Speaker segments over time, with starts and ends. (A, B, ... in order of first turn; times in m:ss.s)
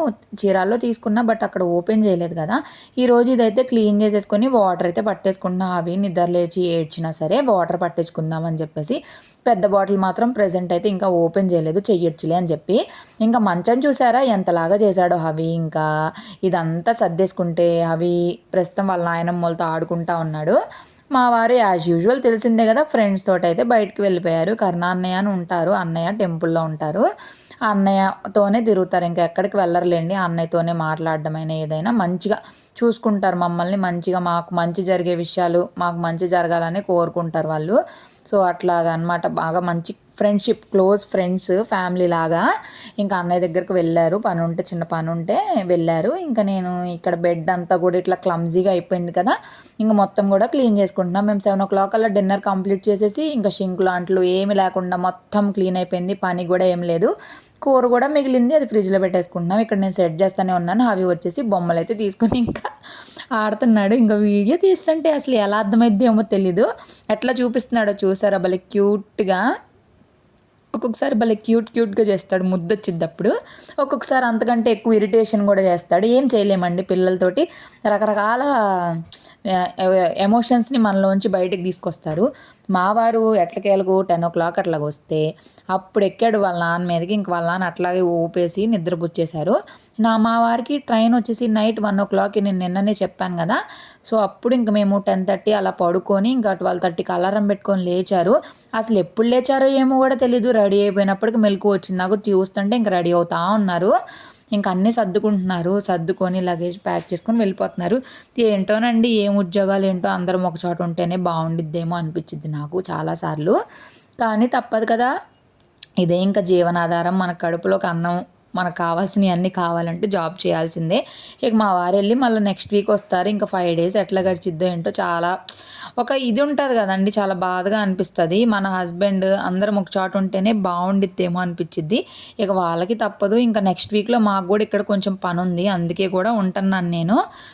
0:00.4-0:15.8 A
0:16.5-0:20.5 A
0:21.1-0:27.0 A
0:27.7-0:37.8 A
0:38.3-0:42.4 A
0:43.0-0:57.1 A
0:57.6-1:02.7 A
1:03.4-1:09.4 A
1:10.8-1:19.1 A
1:19.6-1:25.2 A
1:25.7-1:43.9 A
1:44.6-1:53.6 A
1:54.2-1:55.1 A
1:56.0-2:05.4 A
2:06.0-2:17.2 A